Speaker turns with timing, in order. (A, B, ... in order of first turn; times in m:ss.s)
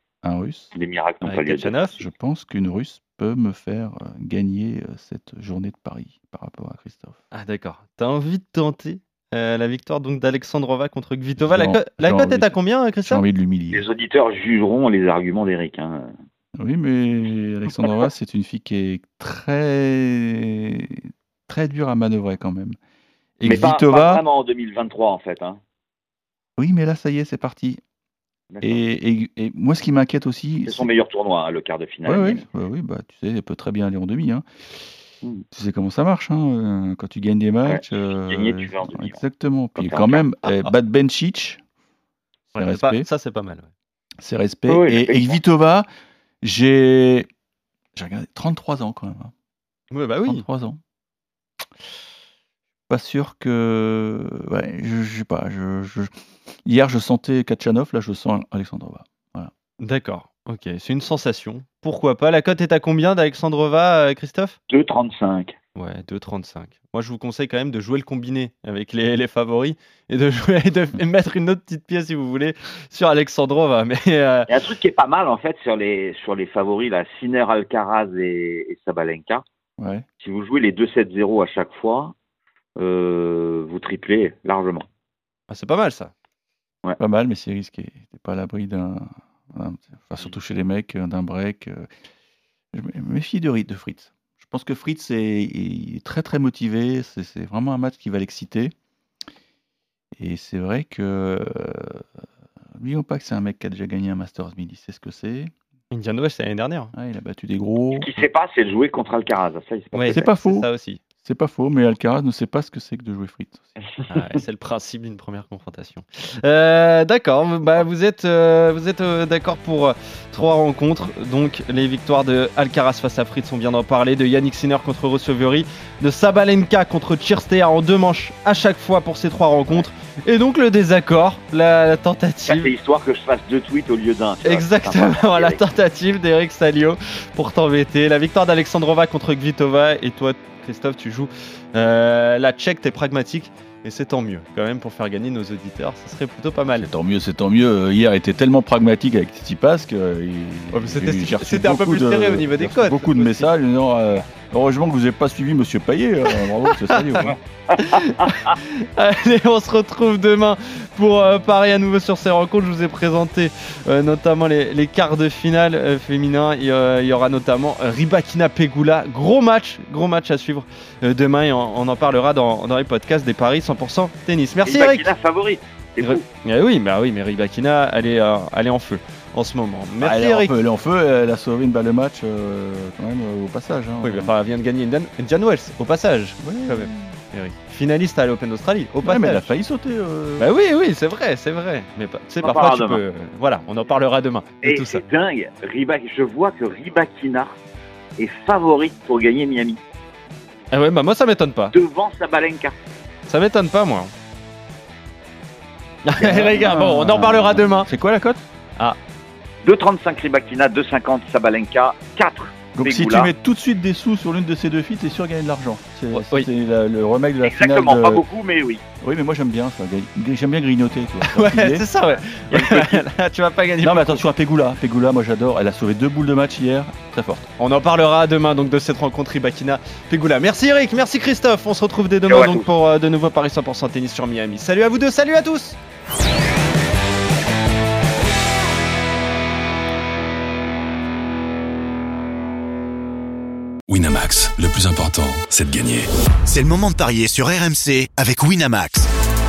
0:00.2-0:00.7 A
0:00.7-0:01.7 B
0:01.2-0:02.0 C
0:02.0-0:07.2 A
0:07.3-0:13.2 C
0:11.4-0:13.8 A
0:13.7-0:16.1 B
0:16.6-0:22.8 A
0:23.4-0:24.2 A
0:23.4-0:25.6 B
0:26.6-0:27.8 A
0:28.5-0:28.8 B
0:28.6-0:30.9 A
0:30.6-0:32.4 B
0:32.1-0:34.4 A
0:35.5-0:41.6 A
0:37.6-0:39.2 B
0:39.8-0:40.3 B
0:42.5-0:43.7 C
0:42.6-0:43.0 A
0:44.2-0:45.9 A
0:44.7-0:45.4 B
0:46.4-0:47.3 A
0:47.9-0:49.3 A
0:49.9-0:50.4 C
0:50.2-0:50.8 A
0:52.9-0:56.1 A
0:56.6-0:59.5 A
0:59.8-1:04.6 C
1:04.7-1:05.5 B
1:05.8-1:14.5 C
1:14.5-1:19.4 B
1:19.8-1:20.0 A
1:20.2-1:22.1 B
1:22.8-1:24.8 B
1:25.5-1:26.1 C
1:27.0-1:31.9 A
1:32.7-1:38.7 A
1:40.2-1:42.2 A
1:42.7-1:45.5 A
1:45.9-1:46.9 C
1:46.9-1:48.1 A
1:47.9-1:50.3 B
1:49.9-1:51.0 C
1:50.1-1:50.7 A
1:51.2-1:53.7 A
1:54.1-2:12.7 C
2:12.4-2:15.6 B
2:14.4-2:26.9 C
2:26.7-2:37.4 A
2:30.7-2:33.5 C
2:36.7-2:55.1 C
2:54.6-2:56.2 B
2:56.0-3:00.5 C
3:00.0-3:04.3 A
3:04.0-3:09.5 C
3:06.4-3:07.2 A
3:09.0-3:10.5 A
3:10.4-3:15.0 C
3:12.4-3:13.0 B
3:14.6-3:17.5 B
3:18.2-3:19.8 B
3:20.7-3:21.8 C
3:21.7-3:22.7 B
3:23.3-3:24.1 C
3:26.0-3:27.9 C
3:26.2-3:28.4 A
3:29.6-3:33.3 B
3:32.7-3:38.2 A
3:36.1-3:36.5 C
3:37.4-3:38.8 B
3:39.0-3:41.8 A
3:41.2-3:44.2 C
3:42.5-3:43.0 A
3:43.8-3:47.5 A
3:47.6-3:55.8 C
3:52.3-3:52.7 B
4:03.9-4:06.1 D
4:06.5-4:09.1 E